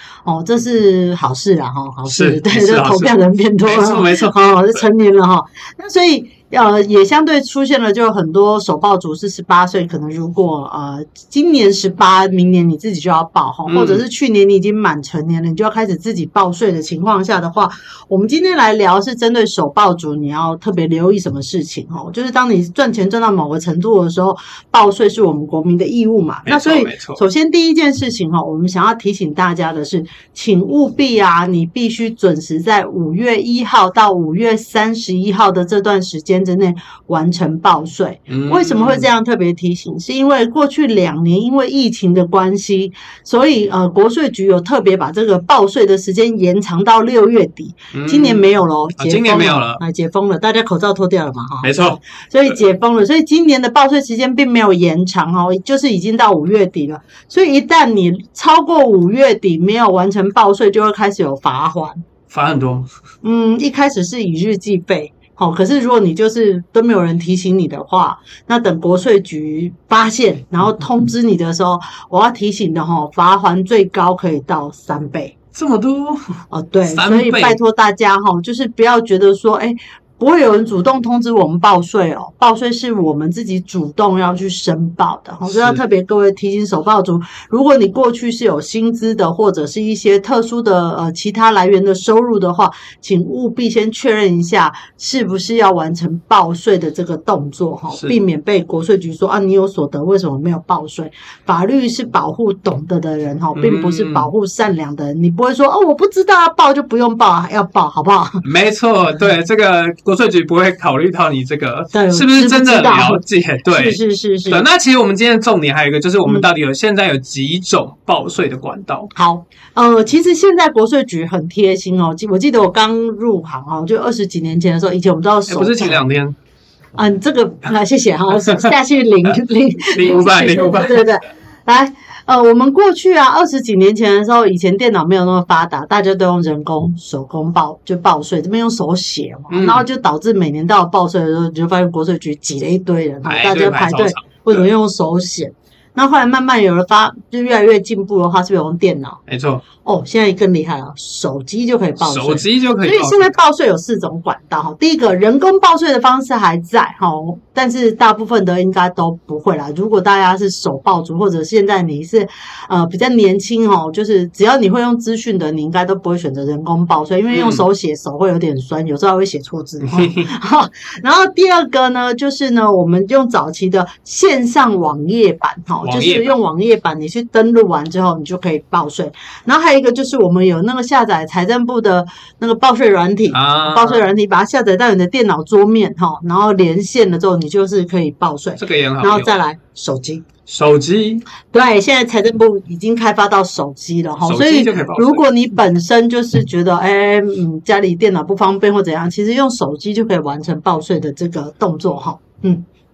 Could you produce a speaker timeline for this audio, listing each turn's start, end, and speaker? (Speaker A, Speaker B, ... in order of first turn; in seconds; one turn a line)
Speaker A: 0.2-62.0
Speaker B: 2.0-4.8
Speaker B: 13.7-14.0
Speaker B: 26.4-27.2
Speaker B: 38.3-39.1
Speaker B: 47.9-48.4
Speaker B: 49.0-49.8
Speaker B: 51.6-52.0
Speaker B: 62.3-62.9
Speaker A: 63.2-75.3
Speaker B: 75.5-76.2
Speaker A: 76.5-108.4
Speaker B: 76.8-77.6
Speaker B: 85.5-85.8
Speaker B: 103.5-104.3
Speaker B: 108.4-119.1
Speaker A: 111.9-114.6
Speaker A: 119.1-126.0
Speaker B: 125.5-126.3
Speaker A: 127.0-149.2
Speaker B: 129.9-131.1
Speaker B: 139.5-139.8
Speaker B: 143.2-144.6
Speaker B: 149.3-149.6
Speaker A: 149.8-190.2
Speaker B: 152.0-153.3
Speaker B: 167.3-167.6
Speaker B: 169.8-170.3
Speaker B: 175.8-176.3
Speaker B: 183.3-184.0
Speaker B: 188.6-189.3
Speaker B: 190.5-191.2
Speaker A: 191.5-202.6
Speaker B: 194.2-195.3